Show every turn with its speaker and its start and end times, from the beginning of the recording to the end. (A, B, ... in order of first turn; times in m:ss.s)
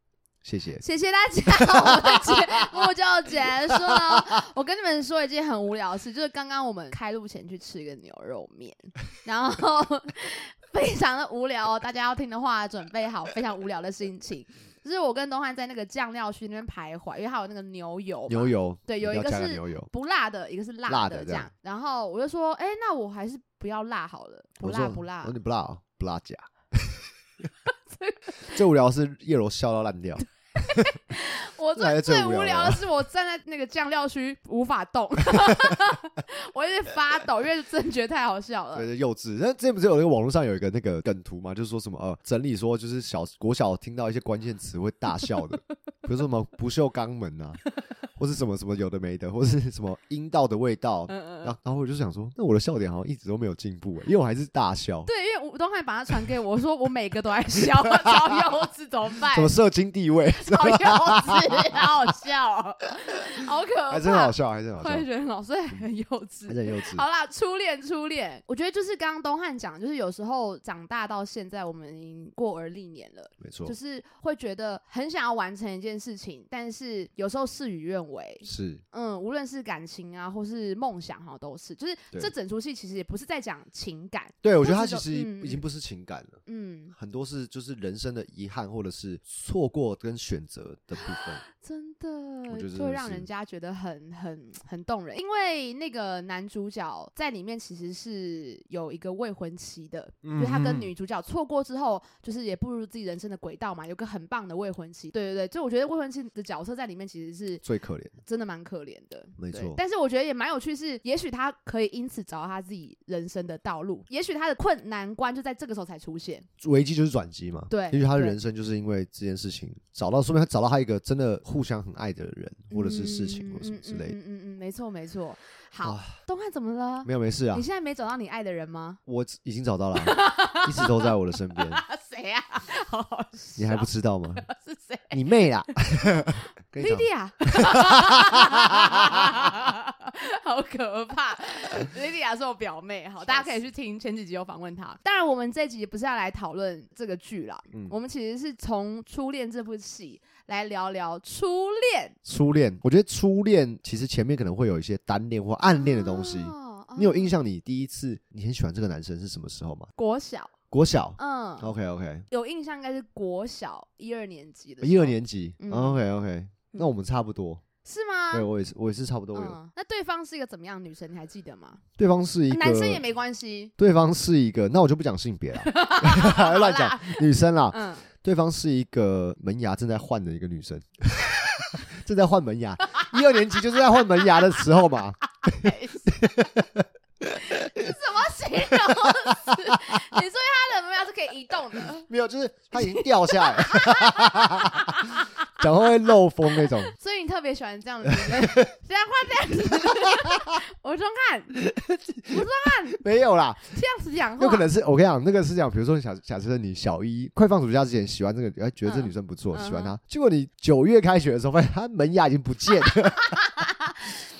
0:00.4-0:00.8 A
0:00.8-0:25.3 B
0:01.5-0:02.7 A
0:03.7-0:04.2 A
0:18.3-0:19.9 A
0:20.9-0:21.5 A
0:24.6-0:27.1 A
0:27.9-0:28.2 B
0:28.4-0:30.2 A
0:30.6-0:38.9 B
0:31.7-0:32.8 A
0:38.7-0:47.6 A
0:48.2-0:55.1 A
0:51.1-0:51.5 B
0:55.0-0:59.5 B
0:57.6-0:58.4 A
0:59.3-1:01.9 A
1:00.4-1:25.6 B
1:03.9-1:05.0 A
1:06.5-1:07.0 A
1:13.4-1:13.7 A
1:18.4-1:18.8 A
1:24.4-1:26.4 A
1:26.4-1:26.9 B
1:26.9-1:31.4 A
1:31.0-1:47.6 B
1:32.5-1:33.3 A
1:40.2-1:40.9 A
1:47.6-1:48.1 A
1:48.2-1:56.5 B
1:49.4-1:49.8 A
1:56.6-2:04.2 A
1:57.7-1:58.4 B
2:02.7-2:09.0 B
2:05.8-2:06.1 A
2:07.0-2:07.6 A
2:09.1-2:11.8 A
2:09.9-2:15.2 B
2:13.6-2:14.4 A
2:15.1-2:19.5 A
2:16.0-2:32.2 B
2:23.3-2:23.5 A
2:32.2-2:39.9 A
2:35.8-2:37.3 B
2:40.0-2:40.5 B
2:40.7-2:42.3 A
2:41.2-2:41.7 B
2:42.3-2:46.0 B
2:44.8-2:47.6 A
2:47.8-2:48.5 B
2:48.3-2:49.6 A
2:49.3-2:51.8 B
2:52.0-2:53.0 A
2:52.5-2:53.7 B
2:53.8-3:08.0 A
2:55.6-2:58.0 B
3:05.4-3:06.5 B
3:07.4-3:12.1 B
3:08.8-3:09.6 A
3:12.1-3:16.9 A
3:12.8-3:15.5 B
3:16.9-3:21.6 B
3:18.1-3:18.7 A
3:19.7-3:20.5 A
3:21.5-3:23.7 A
3:22.3-3:23.0 B
3:23.6-3:24.7 B
3:24.4-3:33.5 A
3:28.9-3:29.9 B
3:32.8-3:33.8 B